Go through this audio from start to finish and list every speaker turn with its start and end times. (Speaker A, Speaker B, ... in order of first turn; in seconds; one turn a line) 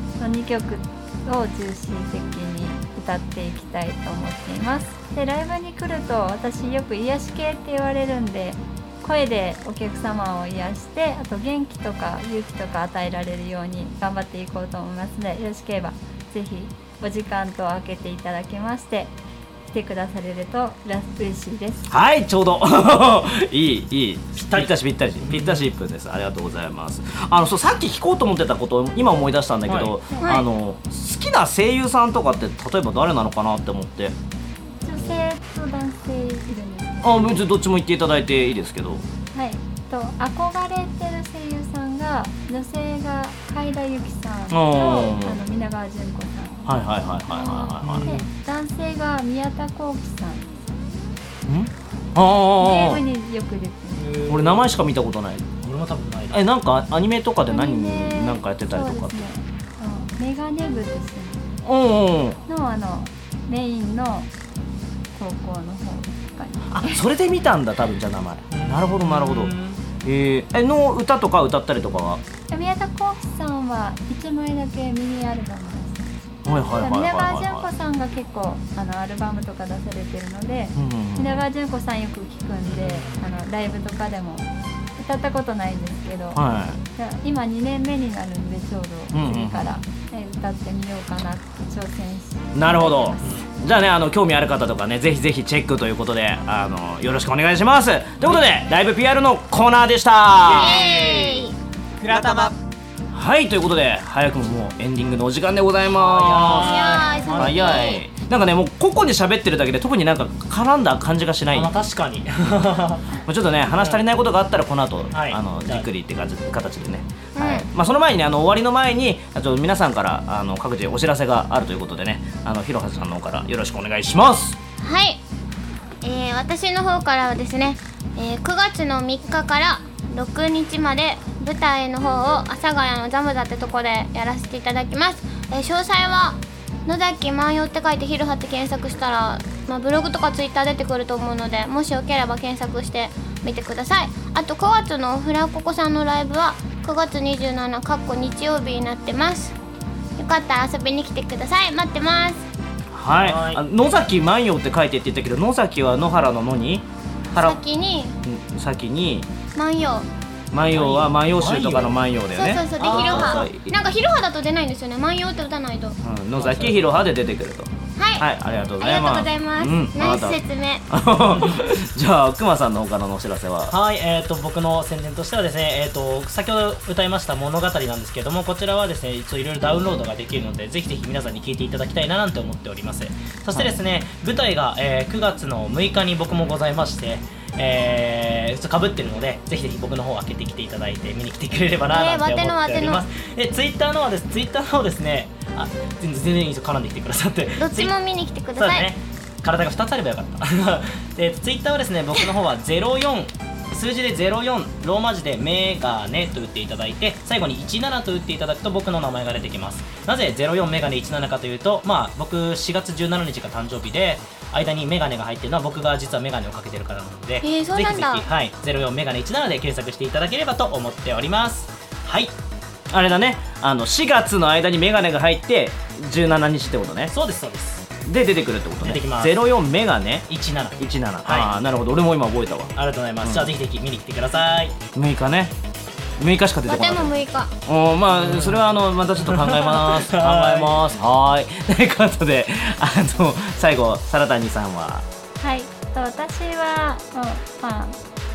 Speaker A: 0.2-19.1
Speaker A: 19.7-21.9
Speaker B: 21.9-34.1
Speaker C: 24.4-25.6
Speaker C: 29.7-30.0
Speaker D: 30.2-30.5
Speaker A: 34.8-37.4
Speaker B: 37.0-39.0
Speaker A: 39.3-46.7
Speaker B: 44.5-45.4
Speaker B: 46.6-48.1
Speaker A: 47.3-50.6
Speaker C: 47.8-48.3
Speaker B: 51.4-53.0
Speaker A: 52.6-54.0
Speaker C: 53.9-54.8
Speaker B: 54.3-55.5
Speaker C: 55.6-56.4
Speaker B: 56.3-59.3
Speaker A: 57.5-61.4
Speaker B: 61.6-62.4
Speaker A: 62.5-64.3
Speaker A: 65.1-67.0
Speaker B: 66.7-72.2
Speaker C: 68.5-69.8
Speaker A: 72.5-76.2
Speaker B: 76.4-77.7
Speaker A: 76.8-93.5
Speaker B: 80.7-81.4
Speaker C: 82.6-83.2
Speaker B: 86.3-86.8
Speaker B: 89.1-89.8
Speaker B: 92.5-100.9
Speaker C: 98.2-98.5
Speaker C: 100.4-102.5
Speaker D: 100.5-101.5
Speaker B: 102.1-102.5
Speaker B: 103.1-111.7
Speaker C: 105.9-108.0
Speaker D: 106.5-108.0
Speaker C: 111.5-113.1
Speaker B: 113.2-124.6
Speaker C: 113.7-114.0
Speaker C: 115.1-115.9
Speaker D: 117.3-117.7
Speaker D: 124.8-125.2
Speaker D: 126.0-149.6
Speaker D: 150.2-152.5
Speaker B: 152.9-157.6
Speaker C: 153.1-153.6
Speaker D: 157.3-158.2
Speaker B: 158.2-159.3
Speaker D: 159.5-160.1
Speaker B: 160.5-163.7
Speaker C: 160.7-162.0
Speaker D: 162.3-166.0
Speaker C: 162.8-163.5
Speaker B: 166.0-173.7
Speaker C: 166.3-167.0
Speaker D: 168.0-170.9
Speaker C: 171.1-171.6
Speaker C: 173.7-197.9
Speaker D: 191.8-193.1
Speaker D: 197.6-198.9
Speaker C: 198.6-222.3
Speaker D: 217.4-218.2
Speaker B: 222.9-227.1
Speaker C: 227.1-227.9
Speaker B: 228.1-230.3
Speaker C: 228.8-229.3
Speaker C: 230.3-231.5
Speaker B: 230.8-233.5
Speaker C: 232.8-234.8
Speaker B: 234.9-235.5
Speaker B: 236.2-245.1
Speaker D: 236.7-237.5
Speaker C: 238.1-238.7
Speaker C: 239.2-240.8
Speaker A: 245.4-248.0